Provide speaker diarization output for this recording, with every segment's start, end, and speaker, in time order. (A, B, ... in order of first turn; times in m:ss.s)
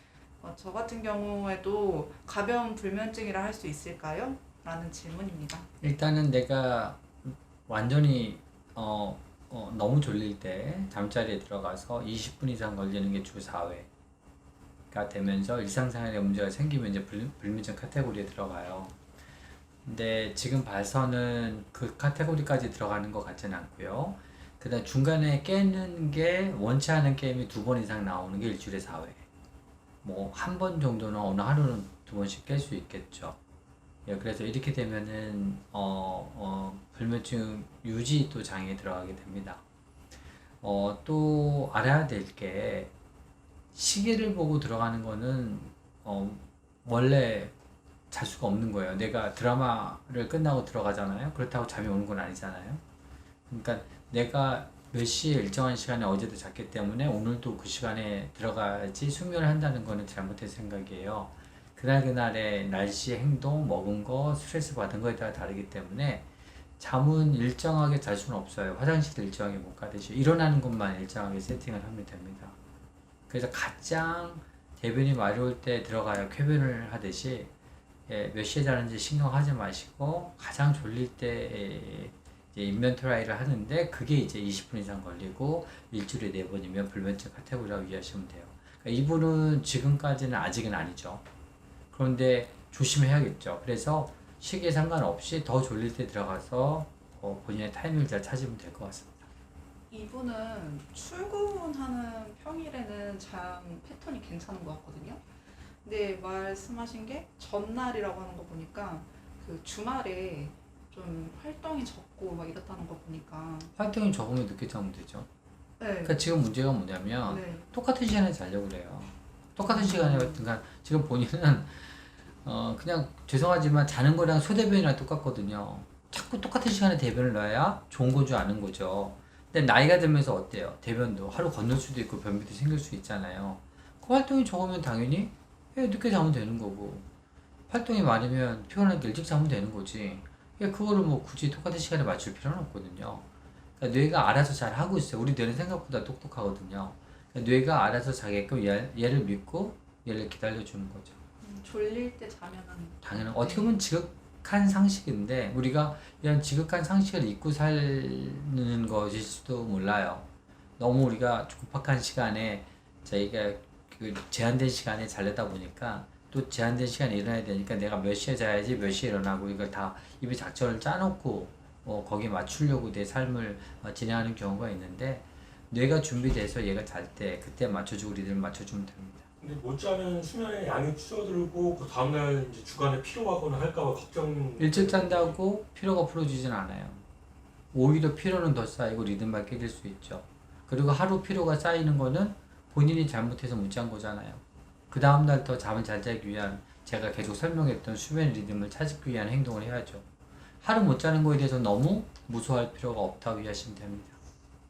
0:00.4-0:05.7 A
0:05.8-0:13.9 B
0:14.9-0:18.9 B
0:19.8-0:29.3 B
0:30.0-0:33.4 B
0:34.0-0:39.6 B
0:40.6-0:42.9 B
0:43.7-0:47.5 B
0:48.1-0:52.8 B
0:53.5-1:06.3 B
1:06.8-1:12.6 B
1:13.3-1:17.5 B
1:18.1-1:31.2 B
1:31.9-1:39.3 B
1:39.9-1:45.2 A
1:45.8-1:53.7 A
1:53.8-1:55.3 B
1:55.8-1:56.1 A
1:56.0-2:17.0 B
1:57.2-1:57.7 A
1:59.6-2:00.4 A
2:17.7-2:23.2 B
2:23.8-2:31.2 B
2:31.4-2:33.7 A
2:33.0-2:59.3 B
2:59.4-3:05.4 C
3:04.6-3:07.0 B
3:07.7-3:20.0 B
3:20.6-3:24.2 B